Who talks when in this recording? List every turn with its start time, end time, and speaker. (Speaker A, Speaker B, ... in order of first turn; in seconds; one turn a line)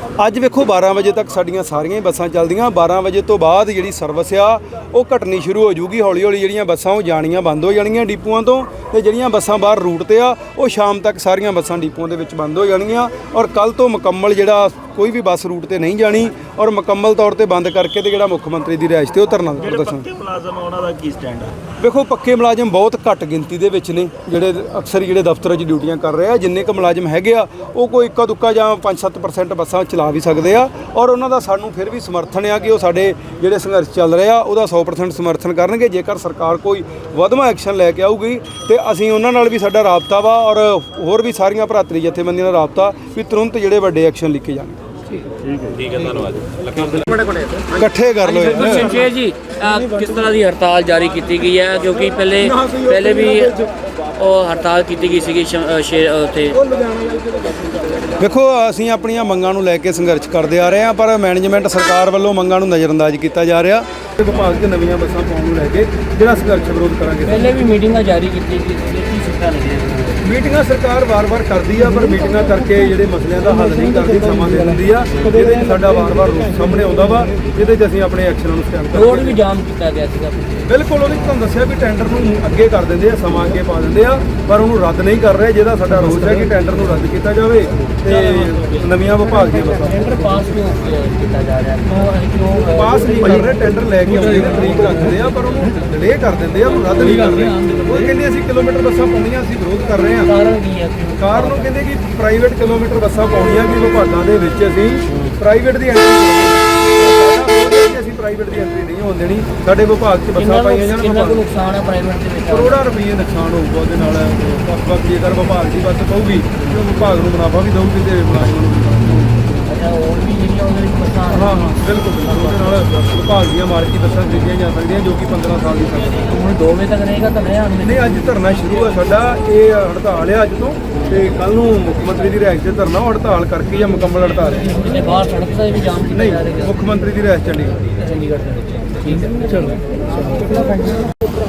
Speaker A: 0.2-20.1
Speaker B: 19.6-21.6
Speaker A: 21.8-44.8
Speaker B: 45.4-47.7
Speaker A: 47.7-48.9
Speaker C: 48.5-56.7
Speaker B: 56.7-58.1
Speaker A: 58.1-67.5
Speaker C: 67.2-70.3
Speaker A: 70.2-79.4
Speaker C: 78.9-80.7
Speaker A: 80.7-90.1
Speaker C: 88.0-89.0
Speaker C: 89.7-93.7
Speaker A: 92.7-100.3
Speaker C: 94.4-95.5
Speaker C: 97.6-98.0
Speaker C: 100.2-101.7
Speaker A: 101.2-111.4
Speaker C: 110.4-112.9
Speaker A: 112.5-119.5
Speaker C: 119.5-123.2
Speaker A: 121.3-126.3
Speaker C: 126.2-129.0
Speaker A: 127.8-134.7
Speaker C: 134.6-136.9
Speaker A: 136.1-137.8
Speaker C: 137.8-140.9